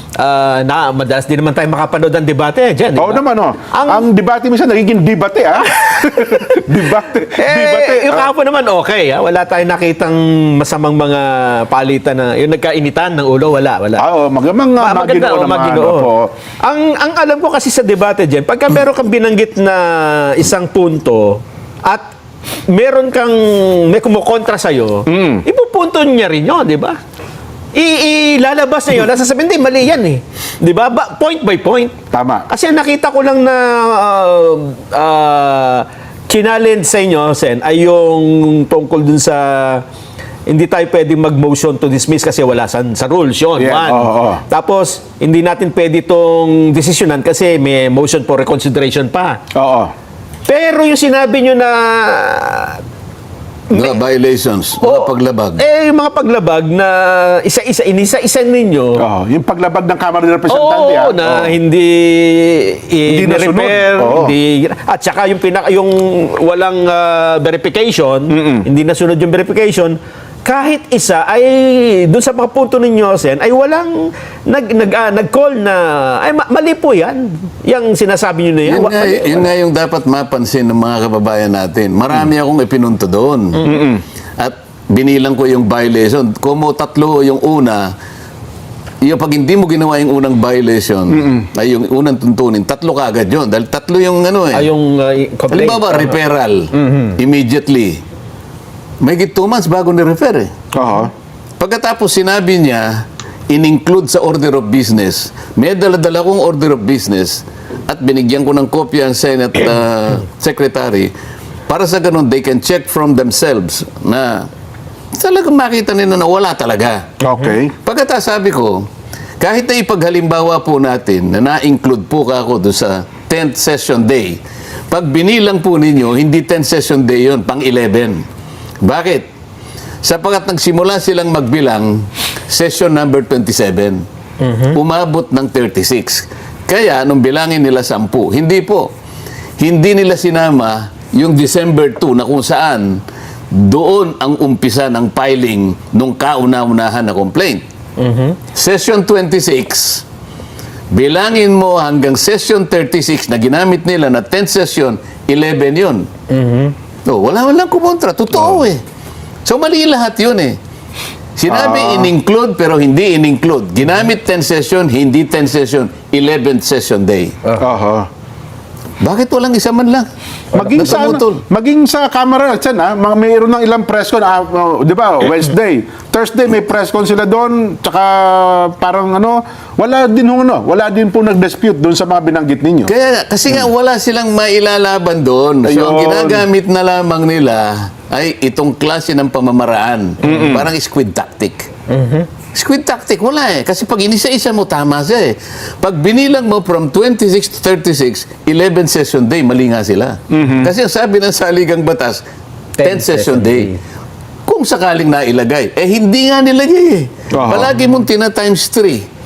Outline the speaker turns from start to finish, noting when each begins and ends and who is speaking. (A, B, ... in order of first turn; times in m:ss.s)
0:00.2-0:04.1 A
0:03.0-0:08.3 B
0:05.8-0:06.6 A
0:07.4-0:14.0 A
0:14.0-0:16.3 B
0:14.8-0:16.1 A
0:16.6-0:22.0 A
0:22.7-0:27.0 A
0:25.1-0:25.4 B
0:27.7-0:32.0 A
0:32.1-0:32.5 B
0:32.5-0:39.8 A
0:40.5-0:49.4 A
0:43.6-0:44.4 B
0:49.5-0:49.9 B
0:50.5-0:52.8 A
0:53.7-0:54.0 A
0:53.7-0:55.6 C
0:54.8-0:59.0 A
0:59.0-1:01.5 B
1:00.5-1:19.5 A
1:03.1-1:04.4 B
1:08.3-1:08.7 B
1:18.6-1:23.7 C
1:23.6-1:24.0 B
1:24.4-1:27.9 C
1:29.0-1:34.7 C
1:31.1-1:31.5 B
1:34.5-1:36.2 A
1:35.5-1:38.0 C
1:36.7-1:37.2 A
1:39.0-1:40.5 C
1:40.7-1:41.1 B
1:41.6-1:51.1 C
1:51.7-1:54.5 C
1:55.1-1:57.1 C
1:57.2-1:57.7 B
1:57.8-1:58.9 C
1:59.4-2:04.4 C
2:04.9-2:08.2 C
2:08.8-2:09.3 C
2:10.0-2:14.0 C
2:14.4-2:14.8 A
2:14.7-2:18.9 C
2:19.6-2:23.0 C
2:23.5-2:27.6 C
2:28.0-2:28.4 A
2:28.5-2:30.0 C
2:30.9-2:36.1 C
2:36.3-2:36.8 A
2:37.1-2:38.8 C
2:39.4-2:40.6 C
2:41.4-2:47.4 C
2:41.5-2:42.1 B
2:47.6-2:48.1 B
2:49.0-2:51.4 C
2:50.5-3:02.9 B
3:02.9-3:11.7 C
3:05.6-3:06.5 B
3:10.2-3:10.7 B
3:11.9-3:12.3 A
3:12.5-3:22.2 C
3:20.3-3:20.7 B
3:22.8-3:23.8 A
3:22.8-3:23.7 C
3:24.5-3:29.0 C
3:27.3-3:27.7 B